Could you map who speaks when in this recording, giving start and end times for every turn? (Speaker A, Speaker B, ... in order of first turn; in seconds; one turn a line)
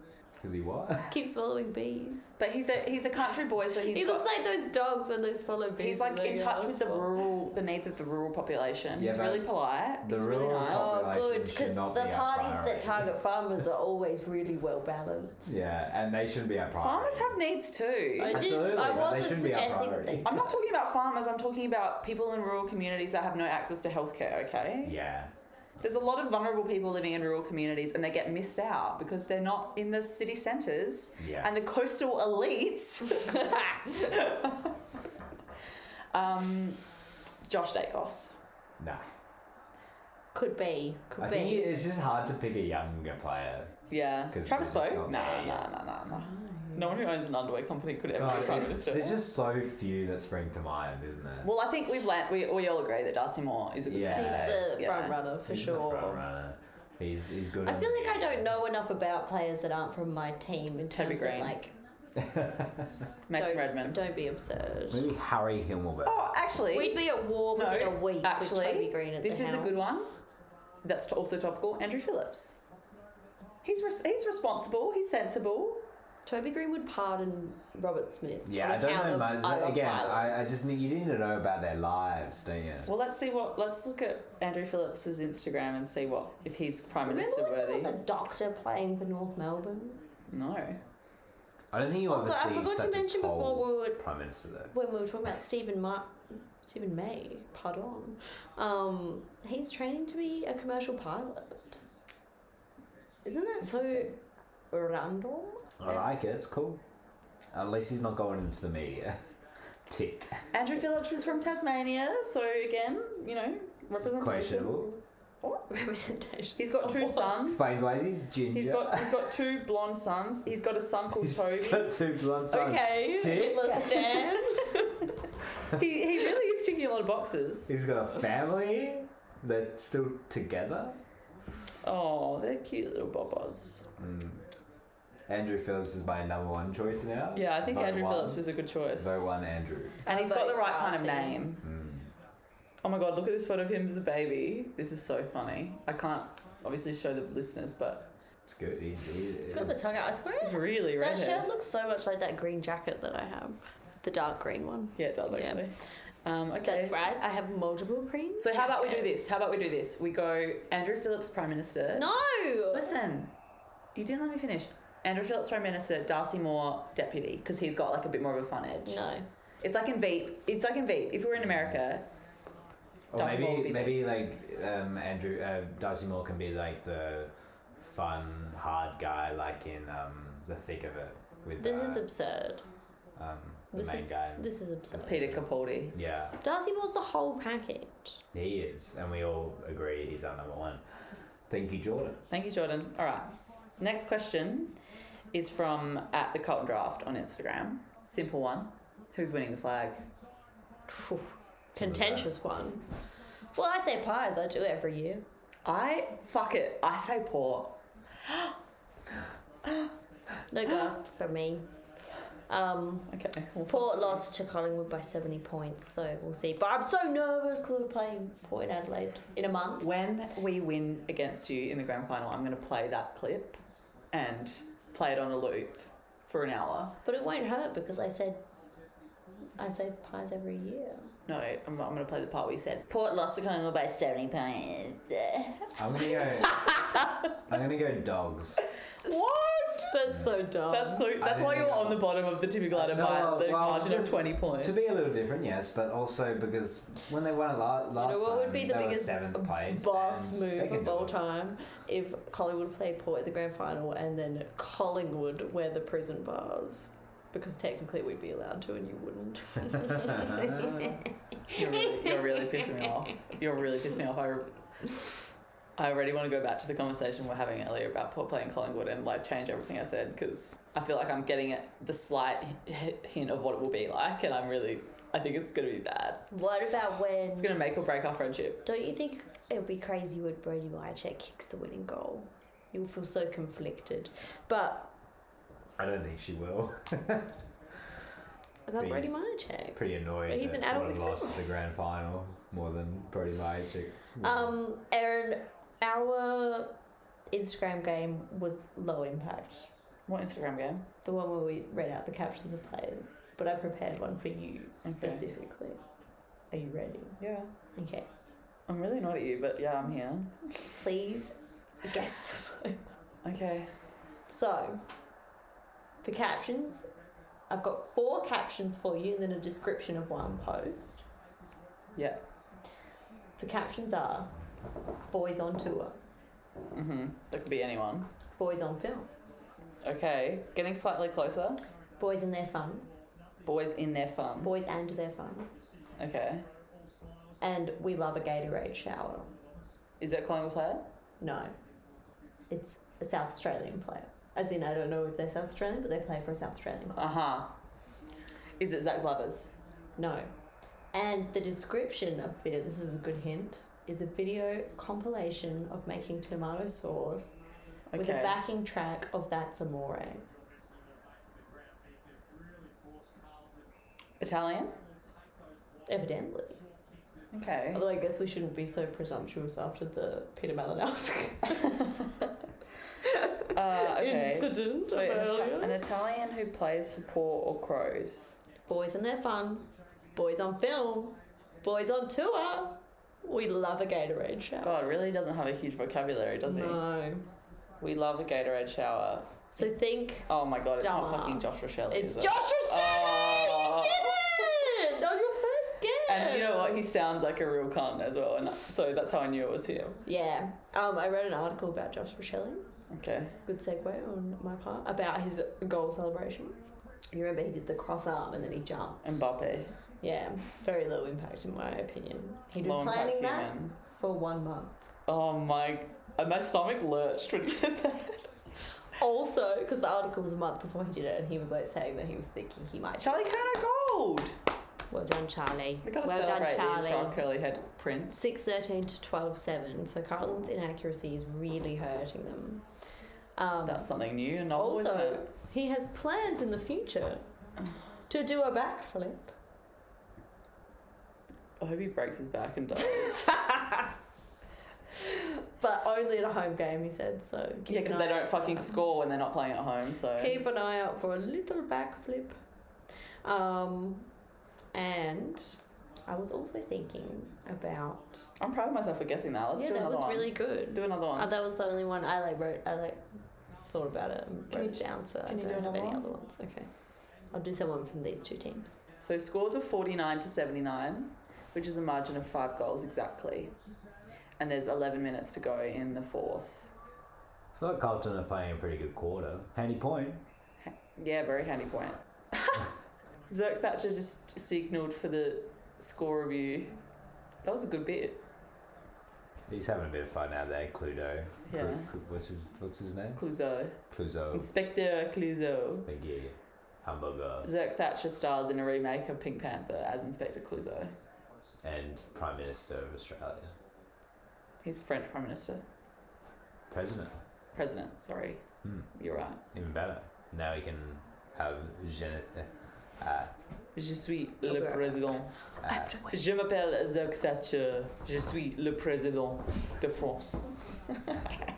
Speaker A: 0.4-1.1
Speaker B: 1.1-2.3
Speaker C: 2.4-4.3
Speaker B: 3.9-7.3
Speaker C: 5.8-11.2
Speaker A: 9.0-9.5
Speaker A: 10.0-13.1
Speaker B: 10.6-15.4
Speaker A: 15.4-17.4
Speaker C: 16.8-18.5
Speaker B: 18.2-20.6
Speaker A: 18.3-20.5
Speaker C: 20.2-25.0
Speaker A: 24.8-25.3
Speaker C: 25.8-34.7
Speaker A: 31.2-31.5
Speaker B: 33.4-33.7
Speaker C: 36.1-36.9
Speaker C: 37.5-38.4
Speaker A: 38.8-39.0
Speaker B: 40.3-41.8
Speaker A: 41.2-43.8
Speaker C: 43.9-49.3
Speaker A: 44.3-45.7
Speaker B: 46.1-47.1
Speaker A: 48.1-51.5
Speaker C: 51.4-55.2
Speaker A: 53.9-54.7
Speaker B: 54.1-56.3
Speaker A: 55.5-58.5
Speaker B: 57.6-61.8
Speaker C: 60.9-61.6
Speaker A: 62.2-62.9
Speaker C: 63.3-64.0
Speaker B: 63.3-65.0
Speaker A: 64.9-66.2
Speaker C: 66.0-70.1
Speaker B: 66.7-69.8
Speaker C: 70.8-72.6
Speaker C: 73.6-75.9
Speaker B: 76.3-80.4
Speaker A: 78.5-82.9
Speaker C: 82.9-87.9
Speaker B: 87.0-90.0
Speaker C: 90.3-90.8
Speaker A: 91.7-94.7
Speaker B: 92.1-94.0
Speaker B: 94.7-101.8
Speaker B: 103.2-104.2
Speaker C: 103.7-104.0
Speaker B: 104.7-106.0
Speaker A: 105.8-106.8
Speaker A: 107.5-109.2
Speaker A: 109.9-110.5
Speaker C: 110.5-115.6
Speaker A: 114.0-115.0
Speaker B: 115.7-117.3
Speaker C: 116.6-117.8
Speaker A: 117.4-119.2
Speaker C: 118.5-122.0
Speaker A: 121.2-123.9
Speaker B: 122.5-125.1
Speaker C: 123.7-124.5
Speaker C: 125.7-127.7
Speaker A: 127.7-131.0
Speaker C: 131.8-133.9
Speaker A: 134.0-134.5
Speaker A: 135.3-140.0
Speaker C: 137.3-139.2
Speaker B: 140.0-141.5
Speaker C: 140.1-141.6
Speaker A: 141.6-142.1
Speaker C: 142.8-148.1
Speaker A: 148.5-149.8
Speaker B: 149.4-155.7
Speaker C: 150.4-151.5
Speaker C: 155.0-157.1
Speaker B: 156.6-159.3
Speaker C: 158.4-162.1
Speaker B: 161.9-162.9
Speaker C: 162.7-163.3
Speaker C: 163.9-169.0
Speaker B: 168.8-169.3
Speaker C: 169.6-172.1
Speaker A: 171.4-171.7
Speaker A: 173.1-182.1
Speaker C: 173.2-174.2
Speaker B: 181.6-182.7
Speaker A: 183.2-186.4
Speaker B: 183.7-185.3
Speaker C: 185.0-186.0
Speaker B: 186.4-188.2
Speaker A: 188.3-190.8
Speaker A: 191.5-192.2
Speaker C: 192.3-194.8
Speaker C: 195.3-200.0
Speaker B: 200.9-202.9
Speaker A: 201.8-202.4
Speaker B: 203.5-205.3
Speaker C: 205.7-208.5
Speaker B: 210.5-211.7
Speaker B: 212.5-213.1
Speaker C: 213.1-214.2
Speaker B: 213.7-219.9
Speaker C: 219.8-223.6
Speaker C: 224.1-227.0
Speaker B: 227.0-228.4
Speaker B: 229.6-231.1
Speaker C: 231.3-237.2
Speaker A: 235.8-238.6
Speaker C: 239.0-240.0
Speaker B: 239.8-241.1
Speaker C: 240.7-244.8
Speaker A: 241.2-242.1
Speaker A: 242.7-251.2
Speaker B: 247.9-263.4
Speaker A: 260.1-260.9
Speaker C: 261.5-265.1
Speaker C: 265.8-276.3
Speaker B: 276.3-277.6
Speaker C: 277.4-278.7
Speaker B: 278.6-284.9
Speaker A: 285.8-287.4
Speaker B: 288.7-291.7
Speaker A: 288.8-289.1
Speaker A: 289.7-294.6
Speaker B: 294.2-296.8
Speaker B: 297.3-299.7
Speaker C: 300.1-300.9
Speaker B: 301.0-305.8
Speaker C: 304.8-305.3
Speaker B: 306.5-307.2
Speaker C: 307.2-307.5
Speaker B: 307.8-308.1
Speaker C: 308.7-310.8
Speaker B: 310.8-312.8
Speaker C: 313.2-313.7
Speaker B: 314.3-314.8
Speaker B: 316.0-316.9
Speaker B: 317.5-321.1
Speaker C: 321.9-322.2
Speaker B: 323.4-324.3
Speaker B: 325.1-326.0
Speaker C: 326.7-328.1
Speaker B: 328.4-329.1
Speaker C: 329.8-331.6
Speaker B: 332.0-332.9
Speaker C: 333.4-334.6
Speaker B: 334.4-335.5
Speaker C: 336.0-336.5
Speaker B: 337.4-339.4
Speaker C: 340.0-340.9
Speaker B: 341.2-341.5
Speaker B: 342.5-347.2
Speaker C: 347.0-347.6
Speaker C: 348.6-349.5
Speaker B: 350.0-350.3
Speaker B: 350.9-357.4
Speaker C: 357.9-358.4
Speaker B: 357.9-360.3
Speaker C: 364.2-364.8
Speaker B: 365.9-366.6
Speaker C: 367.3-367.9
Speaker B: 367.7-371.9
Speaker B: 373.0-375.9
Speaker C: 373.5-378.4
Speaker B: 378.7-384.9
Speaker C: 384.6-386.8
Speaker B: 386.4-387.3
Speaker C: 387.8-389.7
Speaker B: 389.5-396.9
Speaker C: 390.3-394.2
Speaker C: 396.1-400.0
Speaker B: 400.1-402.7
Speaker C: 402.9-403.4
Speaker B: 403.5-409.2
Speaker C: 409.0-409.8
Speaker B: 410.0-414.9
Speaker C: 412.6-413.8
Speaker C: 415.1-418.3
Speaker B: 418.9-423.5
Speaker C: 423.0-424.4
Speaker B: 424.9-427.2
Speaker C: 425.9-428.2
Speaker B: 428.1-432.7
Speaker B: 433.4-433.9
Speaker C: 433.7-435.3
Speaker B: 434.5-437.2
Speaker B: 438.1-439.3
Speaker C: 441.6-443.4
Speaker B: 442.9-443.9
Speaker B: 445.0-448.8
Speaker C: 447.7-450.4
Speaker B: 450.1-452.4
Speaker B: 453.2-454.1
Speaker B: 454.7-458.3
Speaker C: 458.4-461.3
Speaker B: 459.6-463.1
Speaker B: 463.6-466.7
Speaker C: 464.5-466.1
Speaker B: 467.3-468.8
Speaker C: 469.0-473.6
Speaker C: 474.4-476.7
Speaker A: 477.6-480.2
Speaker C: 480.6-482.7
Speaker C: 483.3-486.8
Speaker C: 487.4-488.2
Speaker A: 489.5-493.2
Speaker C: 491.5-491.9
Speaker C: 493.2-493.8
Speaker A: 493.9-494.5
Speaker C: 494.3-495.9
Speaker A: 495.9-497.5
Speaker C: 497.4-501.0
Speaker A: 501.6-503.5
Speaker C: 504.6-505.6
Speaker A: 506.7-507.1
Speaker C: 507.5-509.4
Speaker A: 508.6-508.9
Speaker A: 509.5-513.3
Speaker C: 513.8-521.2
Speaker B: 514.5-516.2
Speaker A: 515.6-516.0